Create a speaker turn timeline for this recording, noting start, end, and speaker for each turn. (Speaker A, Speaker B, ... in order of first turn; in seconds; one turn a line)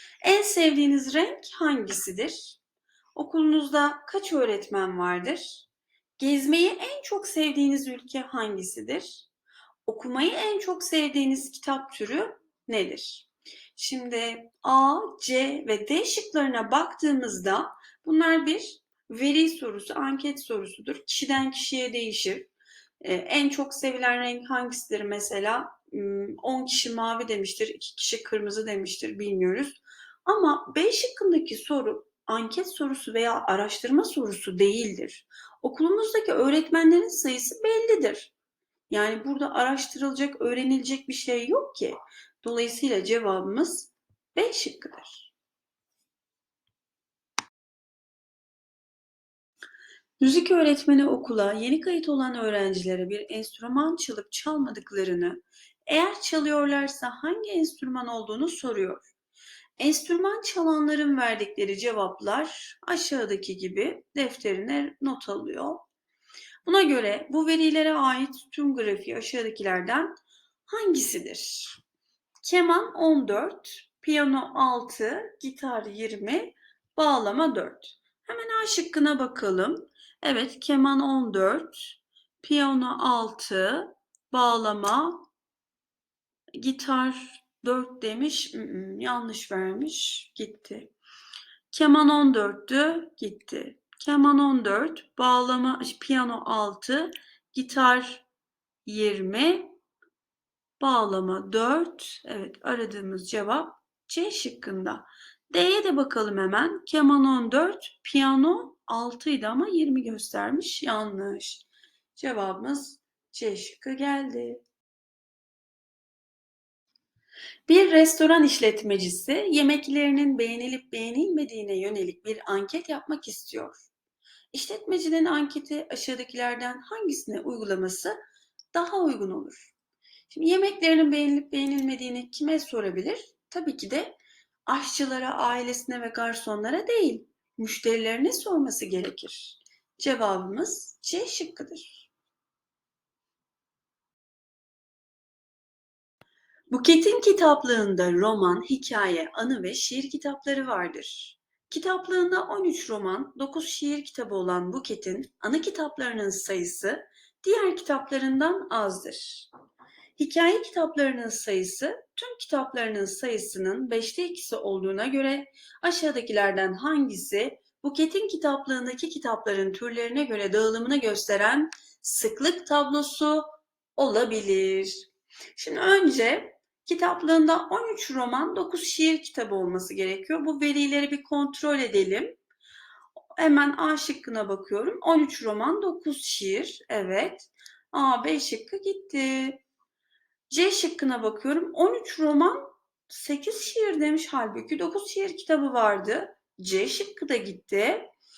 Speaker A: 0.2-2.6
Speaker A: 3.1-5.7
Speaker A: 6.2-9.3
Speaker A: 9.8-22.5
Speaker A: 23.0-38.3
Speaker A: 38.9-45.3
Speaker A: 50.2-59.0
Speaker A: 59.8-65.8
Speaker A: 66.6-70.1
Speaker A: 70.7-71.8
Speaker A: 72.4-85.2
Speaker A: 86.6-90.9
Speaker A: 91.7-98.2
Speaker A: 98.9-99.8
Speaker A: 100.8-114.6
Speaker A: 117.7-123.9
Speaker A: 124.5-128.2
Speaker A: 128.7-129.7
Speaker A: 130.3-134.2
Speaker A: 134.7-142.1
Speaker A: 146.7-159.5
Speaker A: 160.2-182.4
Speaker A: 183.4-189.6
Speaker A: 190.5-198.1